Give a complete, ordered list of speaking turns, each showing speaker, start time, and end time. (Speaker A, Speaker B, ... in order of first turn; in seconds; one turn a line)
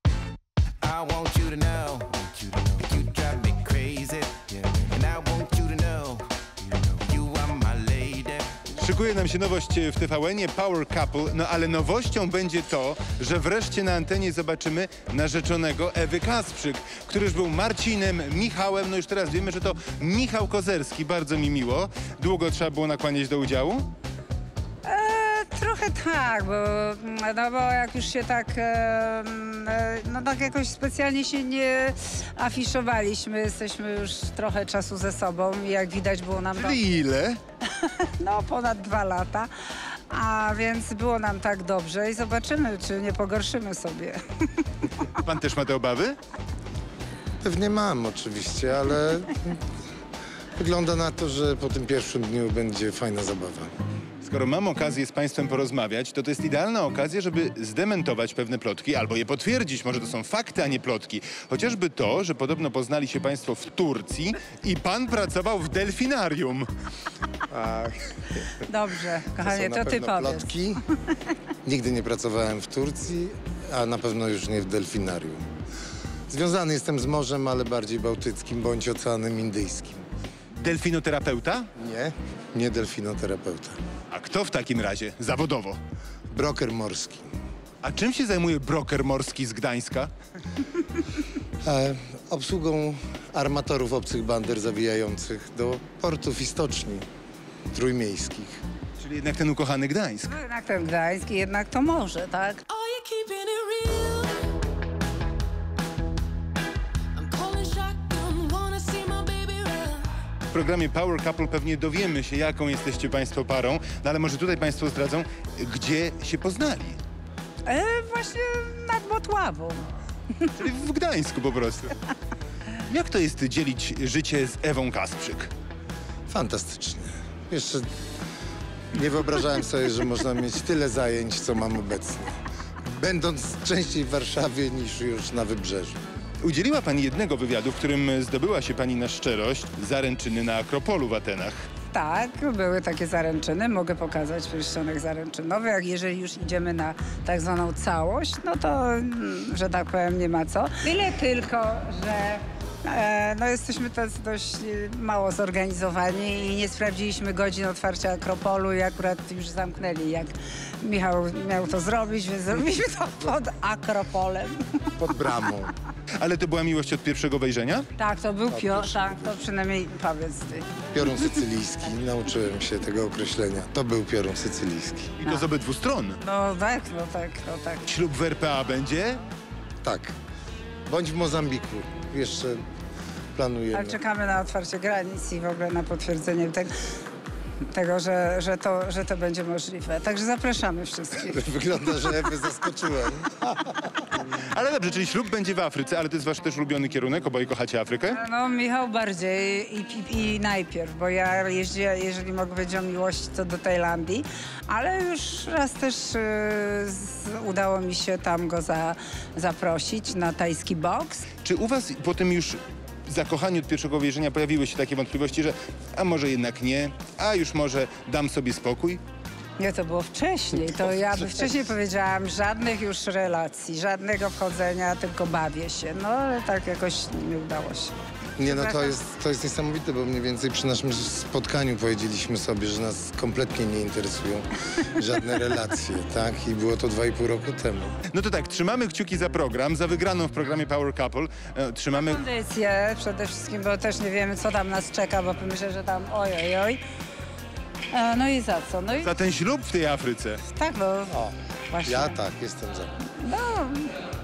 Speaker A: 0.8-6.3
Speaker A: 6.8-8.6
Speaker B: 8.7-23.9
Speaker C: 24.8-36.8
Speaker B: 36.5-37.4
Speaker C: 37.7-39.5
Speaker C: 40.1-44.6
Speaker B: 45.1-46.2
Speaker D: 47.4-49.6
Speaker D: 50.5-53.7
Speaker B: 54.2-66.7
Speaker D: 67.5-68.6
Speaker C: 68.6-70.6
Speaker D: 69.3-70.8
Speaker D: 71.6-75.4
Speaker D: 76.3-80.0
Speaker B: 80.5-81.7
Speaker D: 81.8-83.8
Speaker B: 84.1-85.8
Speaker D: 86.3-87.2
Speaker B: 87.8-90.1
Speaker D: 91.6-97.0
Speaker D: 97.7-98.6
Speaker B: 99.0-100.3
Speaker C: 100.2-102.6
Speaker E: 102.7-104.5
Speaker E: 107.1-110.1
Speaker B: 110.5-117.0
Speaker C: 117.7-119.9
Speaker B: 120.5-122.0
Speaker B: 122.9-125.5
Speaker D: 126.3-127.9
Speaker D: 128.9-136.0
Speaker B: 136.4-141.6
Speaker C: 141.9-164.9
Speaker D: 165.0-165.7
Speaker B: 166.2-167.9
Speaker C: 168.0-170.7
Speaker D: 168.5-169.4
Speaker D: 170.9-175.1
Speaker B: 175.2-176.2
Speaker C: 176.2-177.9
Speaker B: 177.8-179.2
Speaker D: 179.8-180.1
Speaker D: 180.9-182.6
Speaker D: 183.3-184.0
Speaker C: 183.7-186.7
Speaker C: 187.7-191.4
Speaker D: 191.2-194.0
Speaker B: 194.3-198.2
Speaker C: 198.1-211.2
Speaker B: 211.4-219.0
Speaker C: 219.6-228.9
Speaker D: 220.7-221.5
Speaker D: 228.4-238.0
Speaker B: 238.1-242.2
Speaker C: 241.9-246.8
Speaker C: 247.9-249.1
Speaker B: 249.0-250.4
Speaker C: 250.5-251.2
Speaker D: 251.1-253.0
Speaker C: 251.7-252.2
Speaker C: 253.2-254.0